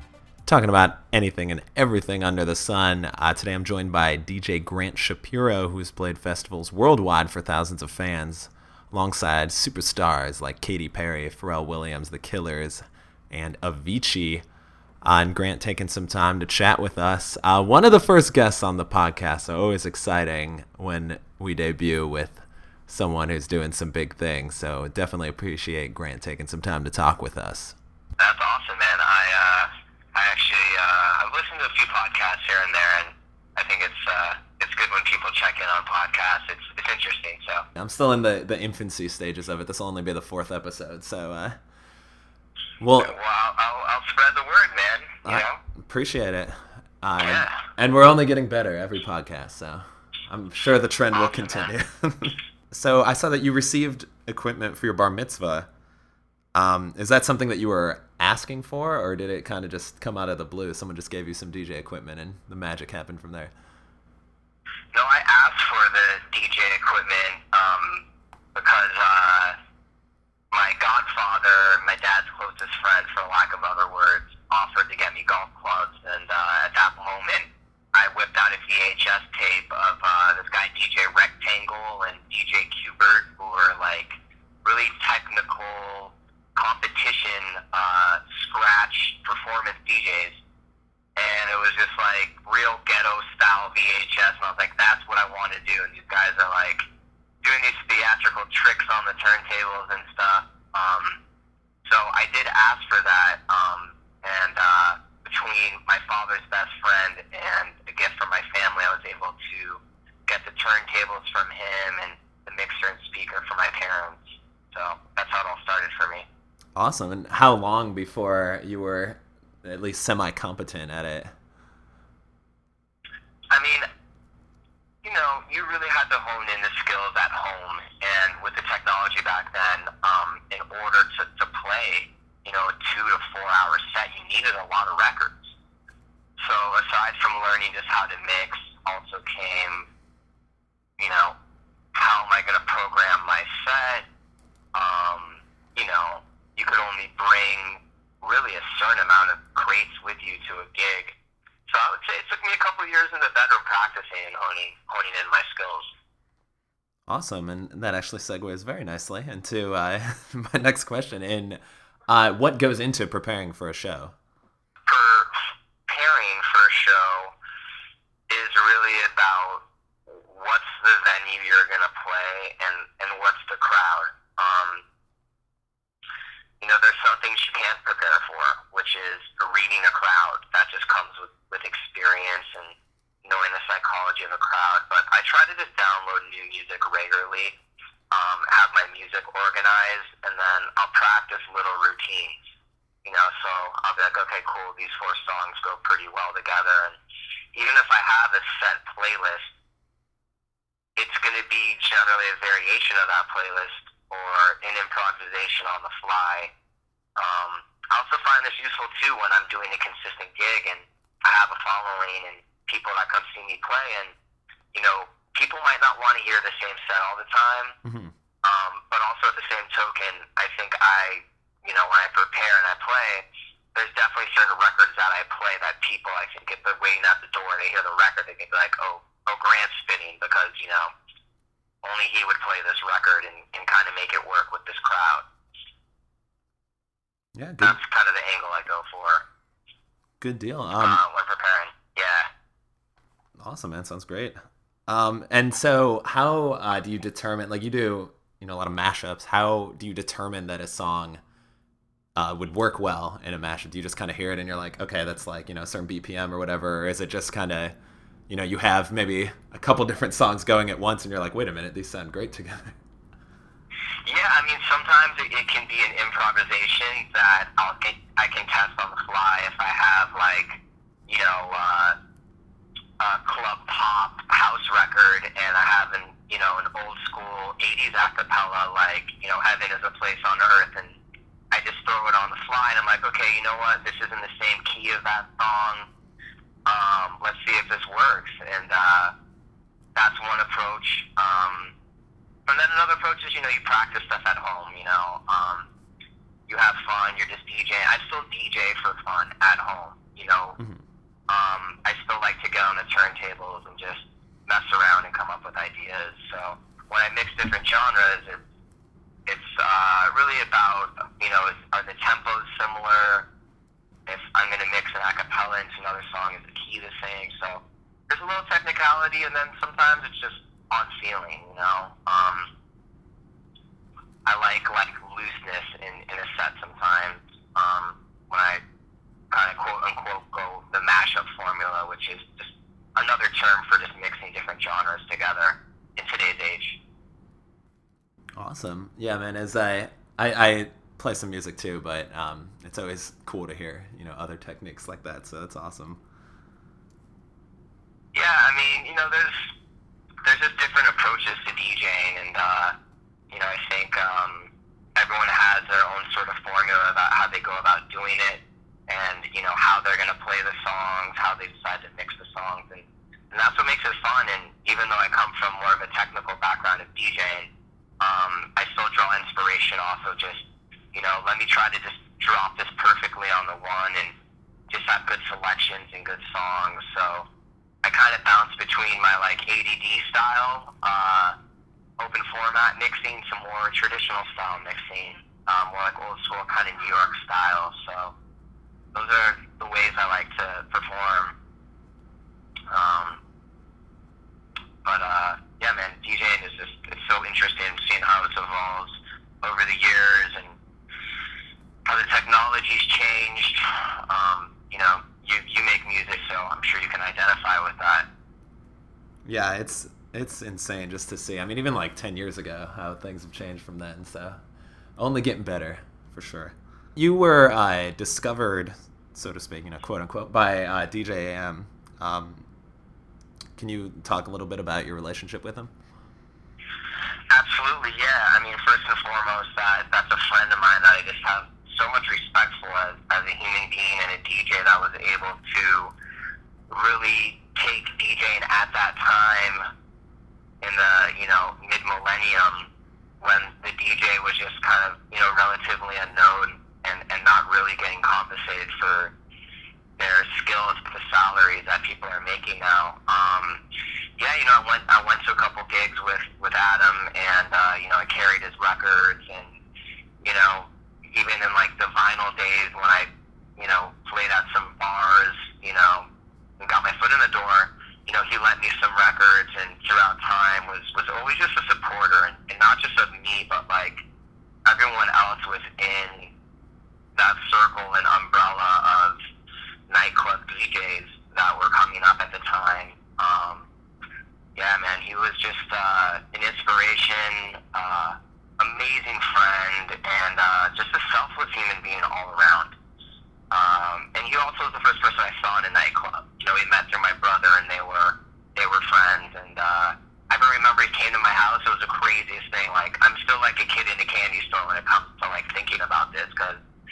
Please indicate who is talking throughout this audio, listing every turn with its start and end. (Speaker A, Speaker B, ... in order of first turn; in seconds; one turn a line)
Speaker A: 0.5-14.4
Speaker A: 15.0-27.8
Speaker B: 28.2-37.6
Speaker A: 37.8-41.6
Speaker A: 42.8-43.1
Speaker B: 43.0-45.6
Speaker A: 45.2-55.7
Speaker B: 47.2-47.7
Speaker B: 51.1-51.7
Speaker A: 56.5-63.5
Speaker B: 64.9-69.6
Speaker B: 70.5-90.4
Speaker B: 91.2-96.8
Speaker B: 97.4-101.2
Speaker B: 101.8-116.3
Speaker A: 116.8-121.3
Speaker B: 123.5-123.8
Speaker B: 125.0-135.5
Speaker B: 136.4-139.9
Speaker B: 141.0-141.4
Speaker B: 141.9-144.1
Speaker B: 144.7-151.2
Speaker B: 151.7-155.9
Speaker A: 157.1-164.1
Speaker B: 164.8-167.3
Speaker B: 168.3-174.8
Speaker B: 176.6-187.6
Speaker B: 188.1-192.5
Speaker B: 193.0-197.0
Speaker B: 197.5-199.5
Speaker B: 200.9-206.5
Speaker B: 207.2-214.1
Speaker B: 214.7-217.8
Speaker A: 217.8-218.1
Speaker B: 218.4-230.9
Speaker B: 231.8-235.3
Speaker A: 237.3-237.8
Speaker B: 237.6-239.2
Speaker A: 240.2-241.0
Speaker B: 240.8-242.3
Speaker A: 243.4-244.3
Speaker A: 244.9-251.2
Speaker A: 252.2-257.7
Speaker A: 258.3-262.8
Speaker B: 264.0-271.9
Speaker B: 273.0-281.0
Speaker B: 281.5-285.9
Speaker B: 286.6-289.1
Speaker B: 289.9-291.7
Speaker B: 292.5-295.7
Speaker B: 296.5-300.6
Speaker B: 301.3-308.4
Speaker B: 309.2-313.3
Speaker B: 314.1-322.5
Speaker B: 324.2-328.6
Speaker B: 329.3-336.8
Speaker A: 338.4-346.0
Speaker B: 348.1-349.5
Speaker B: 350.2-352.7
Speaker B: 353.3-374.1
Speaker B: 374.7-377.3
Speaker B: 377.8-381.4
Speaker B: 382.0-388.1
Speaker B: 388.9-391.4
Speaker B: 392.7-393.2
Speaker B: 394.8-400.6
Speaker B: 401.8-408.1
Speaker A: 409.2-414.4
Speaker A: 415.0-422.5
Speaker A: 423.6-425.7
Speaker B: 427.3-435.9
Speaker B: 436.7-439.7
Speaker B: 440.6-442.7
Speaker B: 443.2-449.1
Speaker B: 450.0-453.6
Speaker B: 454.2-459.6
Speaker B: 460.2-466.1
Speaker B: 466.6-474.0
Speaker B: 474.6-476.3
Speaker B: 477.1-479.2
Speaker B: 479.9-483.7
Speaker B: 484.5-492.8
Speaker B: 493.5-506.6